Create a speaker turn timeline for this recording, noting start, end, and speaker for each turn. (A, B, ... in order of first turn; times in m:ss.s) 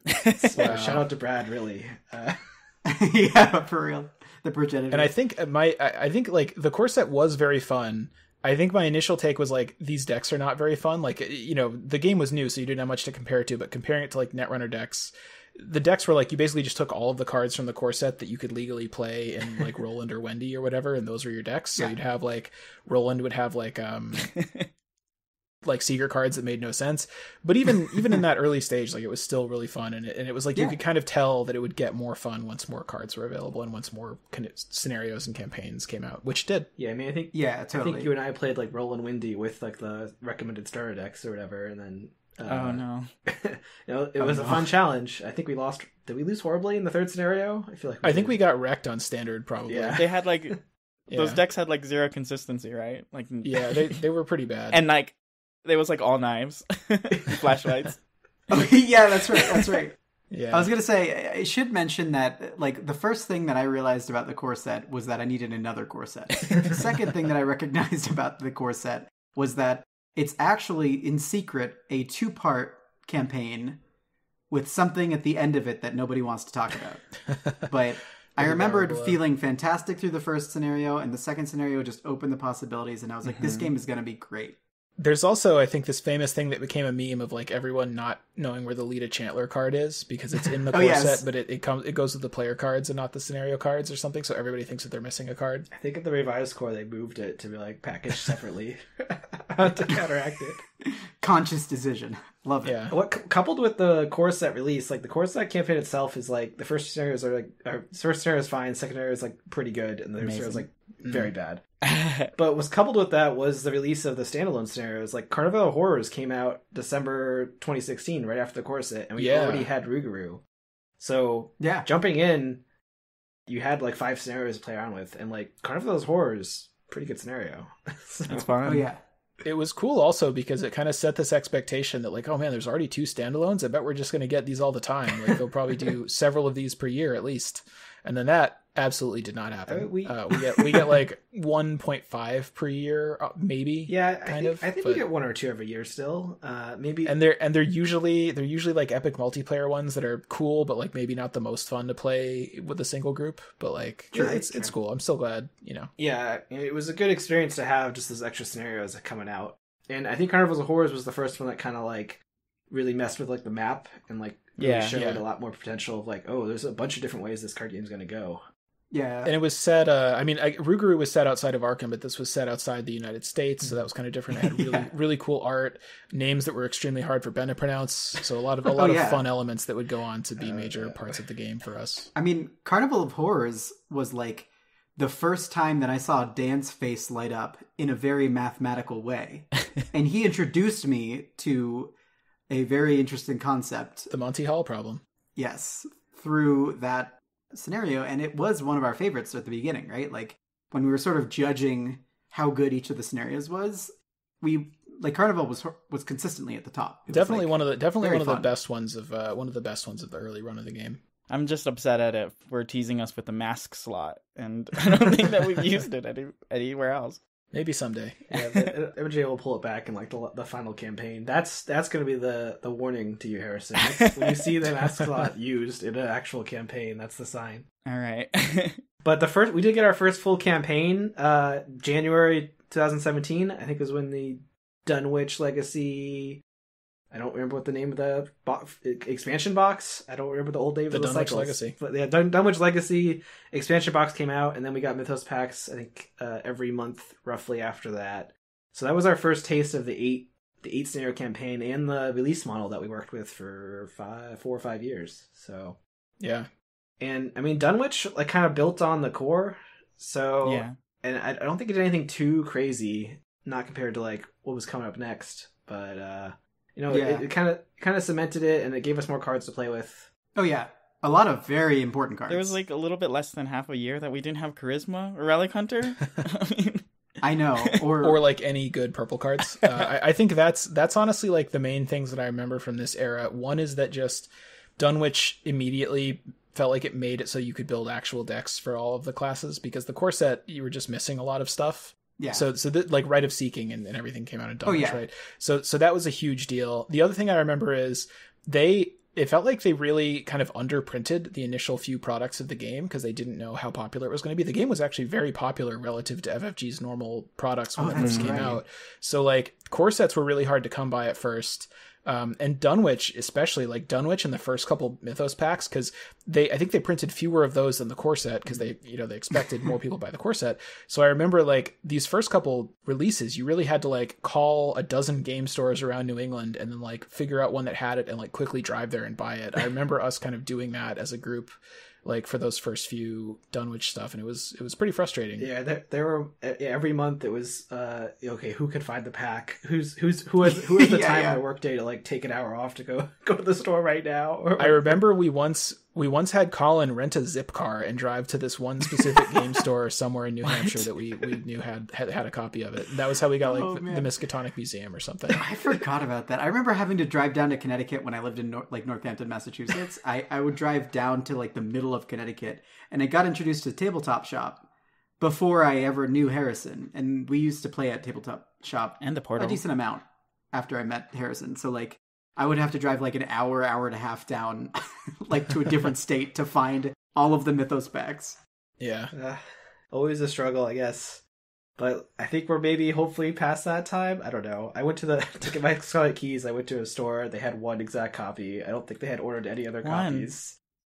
0:00.1-0:00.6 A
0:00.4-0:02.4 B
0:00.6-0:01.1 C
0:02.8-0:05.1 D
0:04.9-0:24.3 C
0:24.3-0:24.6 A
0:25.6-0:36.7 C
0:36.8-0:48.4 B
0:37.3-0:38.1 D
0:42.4-0:43.1 A
0:44.2-0:44.5 C
0:48.0-0:50.0 C
0:49.7-0:50.0 B
0:50.0-0:50.6 A
0:51.1-0:51.4 C
0:51.1-0:54.0 A
0:53.4-0:54.8 C
0:54.7-0:58.0 A
0:58.5-1:00.0 D
1:00.3-1:00.7 C
1:00.5-1:13.8 D
1:14.5-1:17.1 D
1:17.6-1:24.6 D
1:18.4-1:19.2 C
1:23.2-1:23.7 A
1:25.0-1:35.7 C
1:30.7-1:31.2 D
1:35.7-1:40.6 B
1:41.2-1:42.8 D
1:42.6-1:43.0 C
1:42.9-1:51.6 B
1:50.2-1:50.6 A
1:51.0-1:51.3 C
1:51.8-1:52.3 A
1:52.3-2:00.4 B
1:59.2-1:59.7 C
2:01.0-2:02.6 B
2:01.6-2:01.9 D
2:03.5-2:08.5 B
2:08.3-2:08.9 A
2:08.6-2:09.0 D
2:09.4-2:25.0 C
2:19.7-2:20.9 B
2:23.9-2:27.1 B
2:27.0-2:35.9 C
2:34.1-2:34.7 B
2:36.0-2:48.4 B
2:44.6-2:45.0 A
2:44.9-2:45.2 C
2:48.9-2:49.3 D
2:49.2-3:02.1 C
2:58.7-2:59.3 D
3:00.4-3:01.1 B
3:02.1-3:11.9 D
3:12.5-3:14.1 D
3:14.1-3:15.0 C
3:15.4-3:28.5 D
3:27.1-3:31.0 C
3:31.3-3:37.2 A
3:37.5-3:38.2 C
3:38.3-3:38.6 A
3:38.3-3:47.6 B
3:44.0-3:44.4 A
3:47.8-3:48.8 A
3:49.0-3:56.4 B
3:57.1-4:15.8 B
4:00.9-4:01.8 C
4:16.2-4:16.5 C
4:17.0-4:30.1 B
4:20.4-4:20.8 A
4:26.9-4:27.2 D
4:30.3-4:32.6 D
4:32.3-4:36.8 A
4:37.2-4:38.2 D
4:38.0-5:35.5 C
4:52.2-4:52.5 D
4:54.6-4:55.0 D
5:07.8-5:08.6 D
5:08.0-5:08.4 A
5:35.4-5:45.0 B
5:40.4-5:41.4 D
5:44.6-5:55.5 C
5:50.5-5:50.7 D
5:53.4-5:54.1 D
5:55.3-6:04.6 D
6:05.2-6:18.4 D
6:09.0-6:09.6 A
6:18.8-6:19.1 C
6:19.1-6:21.2 B
6:21.8-6:30.6 B
6:29.8-6:30.3 A